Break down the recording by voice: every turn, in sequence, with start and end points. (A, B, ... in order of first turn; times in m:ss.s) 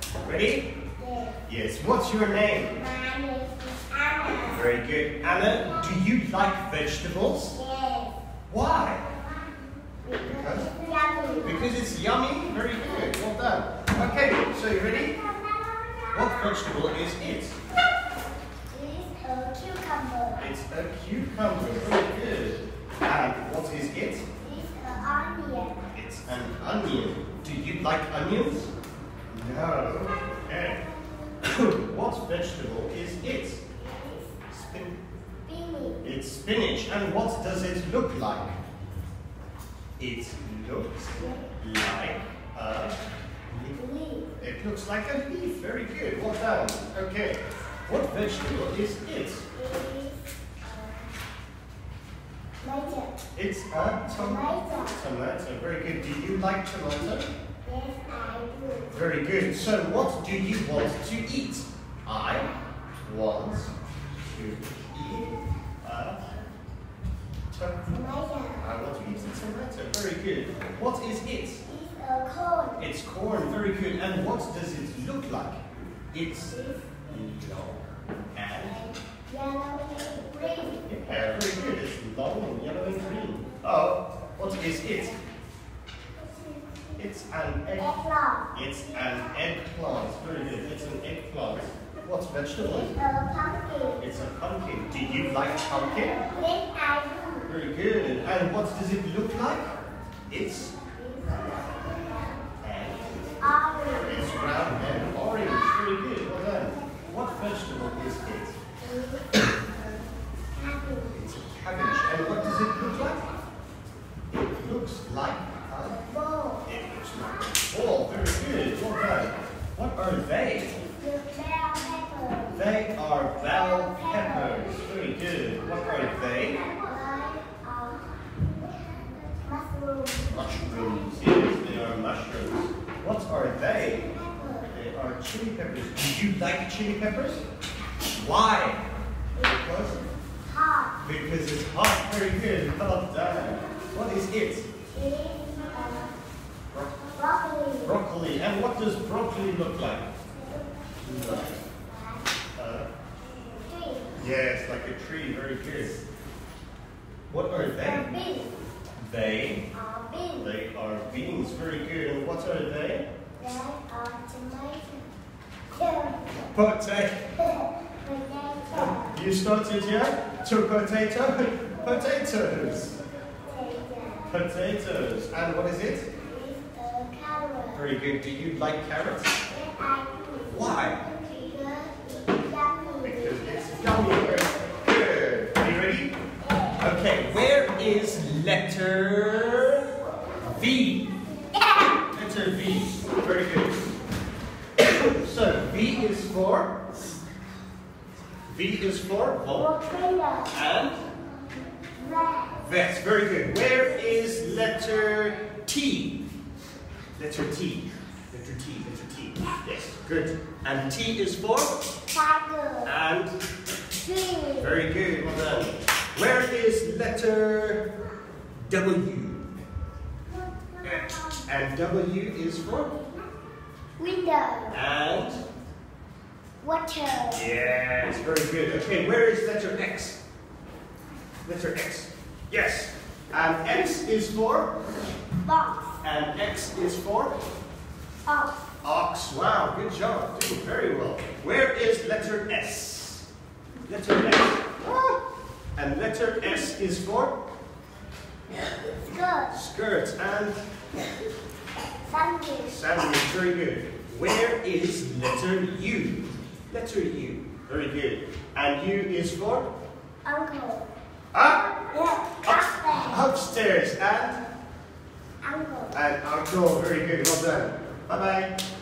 0:00.2-0:00.7 A
0:01.0-0:01.4 B
0:01.4-0:02.8 A
0:02.7-0:04.7 B
0:04.5-0:07.6 A
0:07.5-0:08.2 B
0:08.5-0:09.1 A
0:10.0-0:11.7 B
0:10.2-0:10.7 A
0:11.4-0:15.2 A
0:14.9-0:16.7 B
0:16.1-0:17.6 A
0:18.7-0:20.5 B
0:20.4-0:24.2 A
0:24.4-0:25.8 B
0:25.9-0:28.7 A
0:29.3-0:30.8 A
0:31.4-0:33.6 A
0:33.8-0:34.4 B
0:34.5-0:35.0 A
0:35.4-0:36.0 B
0:36.0-0:38.6 A
0:40.0-0:43.0 A
0:41.2-0:41.5 B
0:43.5-0:43.8 A
0:43.7-0:44.3 B
0:44.4-0:49.4 A
0:49.5-0:51.1 B
0:52.6-0:53.2 B
0:53.3-0:57.3 A
0:54.1-0:55.0 B
0:57.6-0:59.0 B
0:58.9-1:02.5 A
1:03.0-1:03.7 A
1:04.3-1:06.3 A
1:07.5-1:11.6 A
1:07.9-1:08.7 B
1:11.6-1:12.8 B
1:12.8-1:16.6 A
1:16.5-1:17.0 B
1:17.1-1:18.8 A
1:18.6-1:20.9 B
1:20.8-1:25.1 A
1:26.4-1:26.8 B
1:27.0-1:27.9 A
1:27.8-1:28.5 B
1:28.5-1:32.9 A
1:32.6-1:34.0 B
1:34.0-1:36.2 A
1:36.1-1:37.5 B
1:37.4-1:39.7 A
1:40.3-1:40.7 A
1:40.7-1:42.4 B
1:42.6-1:43.3 A
1:43.4-1:44.4 B
1:43.9-1:48.6 A
1:48.8-1:49.5 B
1:50.5-1:51.4 B
1:51.1-1:53.3 A
1:54.3-1:56.0 A
1:55.9-1:56.7 B
1:56.6-2:00.8 A
2:00.8-2:02.7 B
2:02.5-2:06.6 A
2:03.4-2:04.8 B
2:06.3-2:11.1 B
2:10.3-2:14.0 A
2:13.8-2:14.8 B
2:14.7-2:17.4 A
2:18.1-2:18.8 A
2:19.4-2:21.0 B
2:19.4-2:20.0 A
2:21.0-2:24.7 A
2:24.9-2:26.1 B
2:26.7-2:27.1 A
2:27.1-2:28.0 B
2:27.8-2:30.0 A
2:30.3-2:32.3 B
2:31.0-2:31.6 A
2:32.6-2:32.9 A
2:33.5-2:34.2 B
2:34.2-2:36.0 A
2:37.3-2:38.0 A
2:37.8-2:38.5 B
2:39.0-2:39.6 A
2:39.7-2:40.5 B
2:40.4-2:43.0 A
2:43.4-2:45.1 B
2:45.7-2:46.4 B
2:46.5-2:47.2 A
2:47.4-2:49.2 B
2:48.7-2:53.0 A
2:53.4-2:54.4 B
2:54.3-2:56.1 A
2:56.2-2:57.8 B
2:57.7-2:59.3 A
2:59.4-3:04.4 B
3:00.4-3:01.0 A
3:03.0-3:06.1 A
3:06.4-3:06.8 B
3:06.8-3:11.1 A
3:11.5-3:12.0 B
3:12.1-3:13.9 A
3:14.8-3:16.7 A
3:18.5-3:19.7 A
3:19.5-3:20.6 B
3:20.5-3:21.0 A
3:21.9-3:22.6 B
3:22.5-3:26.2 A
3:27.2-3:31.8 A
3:32.1-3:32.9 B
3:32.8-3:33.3 A
3:34.0-3:34.8 B
3:34.6-3:37.8 A
3:38.6-3:39.4 A
3:40.3-3:41.5 B
3:40.8-3:42.9 A
3:42.9-3:43.2 B
3:44.0-3:44.8 B
3:44.7-3:45.4 A
3:46.6-3:47.4 B
3:47.3-3:50.2 A
3:51.4-3:54.7 A
3:55.4-3:56.0 B
3:56.0-3:57.4 A
3:58.2-3:58.5 B
3:58.8-4:03.3 A
4:03.9-4:05.2 A
4:05.8-4:07.3 A
4:08.7-4:09.6 B
4:09.5-4:10.6 A
4:12.0-4:12.8 B
4:12.7-4:19.7 A
4:20.2-4:20.9 B
4:21.3-4:21.8 A
4:21.9-4:23.2 B
4:22.4-4:24.4 A
4:25.4-4:26.0 B
4:25.9-4:28.5 A